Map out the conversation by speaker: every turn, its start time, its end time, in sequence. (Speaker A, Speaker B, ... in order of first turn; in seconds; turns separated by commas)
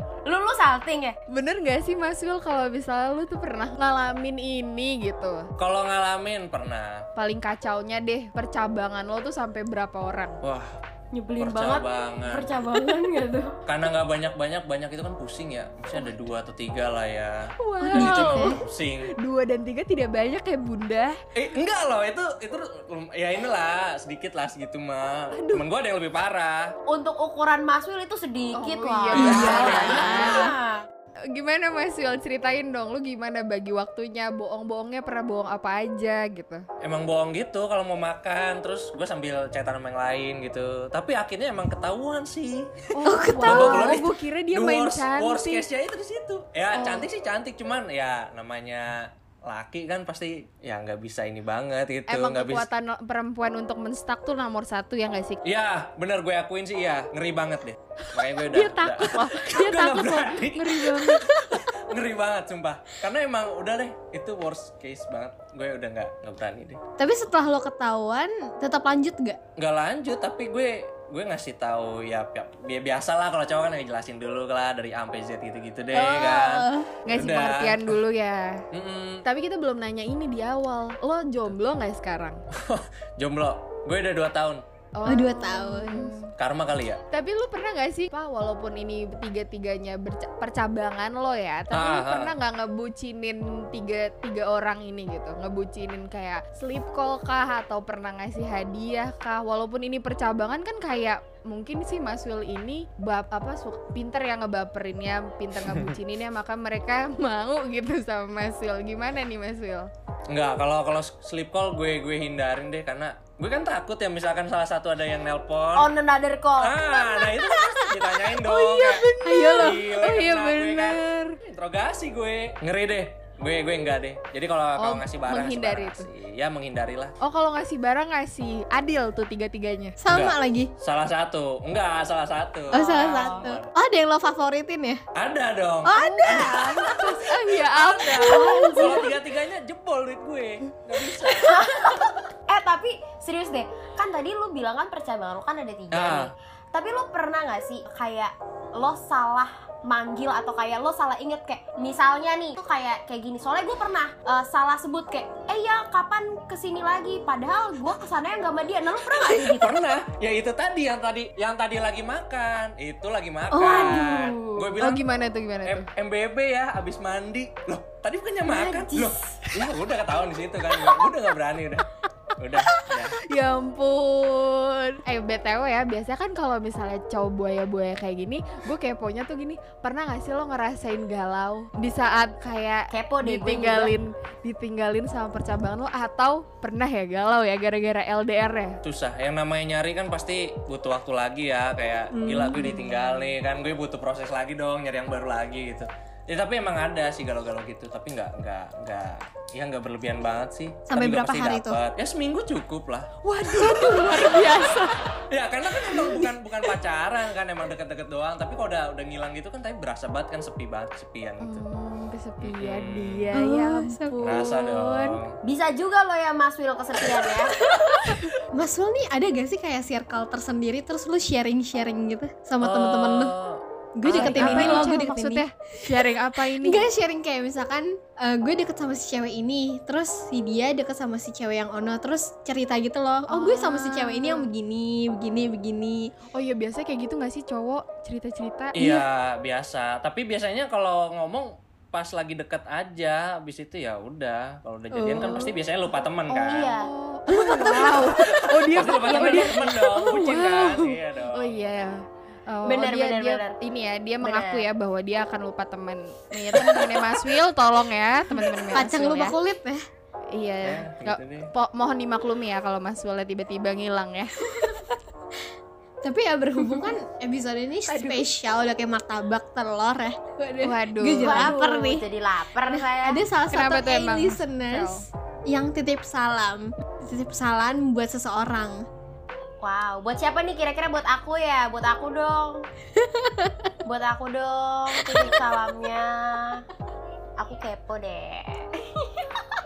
Speaker A: 0.2-1.1, Speaker B: 1.3-5.5, Speaker C: 5.6-7.0, Speaker B: 7.2-10.4, Speaker C: 10.4-10.7, Speaker A: 11.1-13.6, Speaker C: 11.4-12.7, Speaker C: 13.7-19.1, Speaker B: 15.9-16.3, Speaker B: 17.6-18.6, Speaker D: 17.8-18.6, Speaker B: 19.2-21.1, Speaker C: 21.3-26.8, Speaker B: 25.3-25.6, Speaker A: 26.9-30.8, Speaker B: 28.5-30.5, Speaker D: 29.1-30.6, Speaker C: 29.1-29.5, Speaker B: 31.3-36.6, Speaker C: 36.8-42.7, Speaker B: 42.9-45.6, Speaker D: 43.0-44.1, Speaker C: 43.3-52.7, Speaker B: 46.7-47.1, Speaker B: 52.1-55.4, Speaker C: 55.4-66.8, Speaker B: 58.0-61.3, Speaker D: 67.0-69.4, Speaker C: 69.6-78.0, Speaker D: 75.9-76.9, Speaker B: 77.1-78.6, Speaker C: 78.7-79.2, Speaker B: 79.2-82.3, Speaker C: 82.5-84.6, Speaker B: 85.0-86.3, Speaker D: 85.0-86.2, Speaker C: 86.4-87.0, Speaker B: 87.1-109.9, Speaker C: 91.7-92.3, Speaker C: 110.3-115.9, Speaker A: 115.7-116.8, Speaker C: 116.6-127.1, Speaker B: 118.2-121.4, Speaker D: 119.2-119.7, Speaker B: 124.8-126.1, Speaker B: 127.2-130.0, Speaker D: 130.0-130.7, Speaker C: 130.1-133.7, Speaker D: 132.7-135.0, Speaker B: 132.9-133.4, Speaker C: 135.2-137.0, Speaker D: 135.8-136.8, Speaker B: 135.9-139.1, Speaker C: 137.6-141.9, Speaker A: 138.4-138.8, Speaker A: 141.4-159.8, Speaker C: 145.9-146.3, Speaker C: 159.3-165.0, Speaker A: 163.5-164.7, Speaker B: 164.8-165.8, Speaker C: 165.6-171.9, Speaker A: 168.5-169.1, Speaker C: 172.4-173.2, Speaker B: 173.2-188.8, Speaker A: 182.9-183.9, Speaker C: 188.8-204.5, Speaker D: 192.2-192.9, Speaker D: 200.9-201.8, Speaker B: 203.2-205.0, Speaker C: 205.3-211.6, Speaker B: 211.4-215.2, Speaker C: 212.4-213.3, Speaker D: 213.3-214.4, Speaker C: 214.2-215.3, Speaker A: 215.4-217.5, Speaker D: 218.5-223.3, Speaker C: 222.6-224.9, Speaker D: 224.0-236.1, Speaker B: 224.1-226.9, Speaker B: 233.3-234.5, Speaker B: 236.3-239.0, Speaker C: 238.7-246.7, Speaker B: 244.9-245.5, Speaker B: 246.3-259.4, Speaker A: 246.5-246.9, Speaker D: 247.3-248.2, Speaker C: 248.2-251.7, Speaker A: 252.7-253.5, Speaker A: 254.2-254.7, Speaker D: 258.7-259.8, Speaker B: 260.3-264.8, Speaker C: 260.6-261.5, Speaker D: 266.0-272.1, Speaker B: 267.9-268.2, Speaker B: 270.6-271.5, Speaker A: 271.2-273.2, Speaker D: 272.6-278.8, Speaker B: 273.5-275.0, Speaker A: 279.6-282.6, Speaker D: 283.1-283.7, Speaker A: 283.9-286.6, Speaker A: 287.4-289.2